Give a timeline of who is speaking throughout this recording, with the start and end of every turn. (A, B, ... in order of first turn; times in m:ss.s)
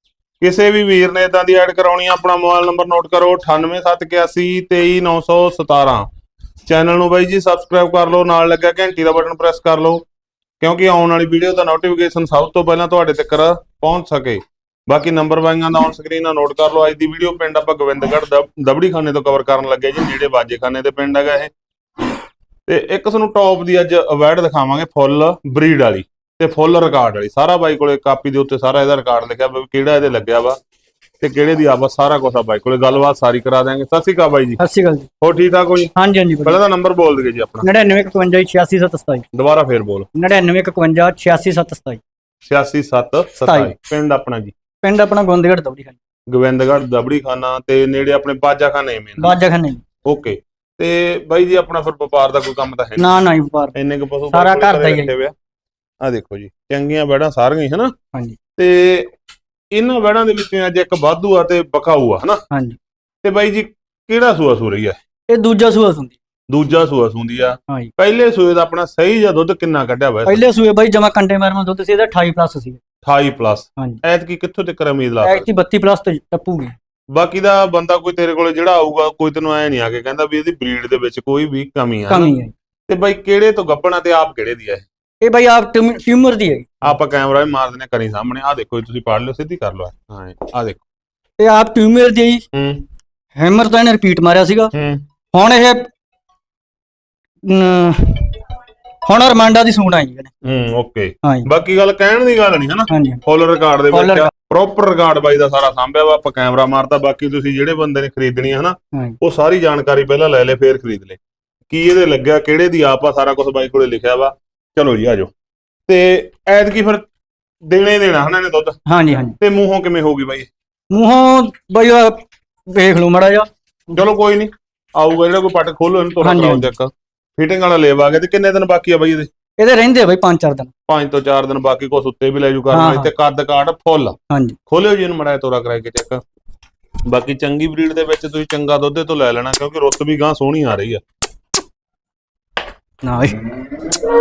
0:00.4-0:06.1 A
0:06.7-0:10.0 A
0:10.6-0:21.5 A
0:22.7-0:30.6 A
0:31.2-0:34.6 A
0:34.6-0:35.1 B
0:35.2-0:37.7 A
0:36.0-0:36.6 B
0:37.6-0:39.2 B
0:39.3-0:40.1 A
0:40.2-0:42.0 B
0:42.4-0:44.5 A
0:43.5-0:43.7 B
0:44.8-0:46.0 B
0:46.3-0:49.4 A
0:49.2-0:49.8 B
0:50.0-0:53.2 A
0:53.0-0:53.7 B
0:53.8-0:55.3 A
0:54.3-0:55.1 B
0:56.0-0:57.9 A
0:58.6-0:59.1 A
0:59.7-1:02.4 A
1:02.5-1:02.8 B
1:03.2-1:05.0 A
1:05.3-1:06.2 B
1:06.5-1:10.4 A
1:10.3-1:12.8 B
1:13.0-1:15.5 A
1:15.2-1:16.8 B
1:17.1-1:22.3 A
1:22.1-1:22.5 B
1:22.9-1:24.9 A
1:25.2-1:27.0 B
1:26.8-1:30.8 A
1:31.4-1:32.4 B
1:32.5-1:32.8 A
1:33.4-1:34.7 B
1:34.7-1:35.0 A
1:35.3-1:35.9 B
1:37.4-1:38.4 B
1:39.0-1:40.3 B
1:40.4-1:55.3 A
1:42.9-1:43.2 B
1:43.9-1:44.3 B
1:55.9-1:57.1 A
1:57.7-1:58.8 A
1:58.9-1:59.4 B
1:59.4-2:00.5 A
2:00.9-2:03.5 B
2:03.9-2:09.3 A
2:06.2-2:06.7 B
2:09.6-2:10.7 B
2:10.9-2:14.2 A
2:12.7-2:13.1 B
2:14.3-2:14.6 B
2:14.7-2:16.2 A
2:17.1-2:21.0 A
2:23.0-2:23.5 B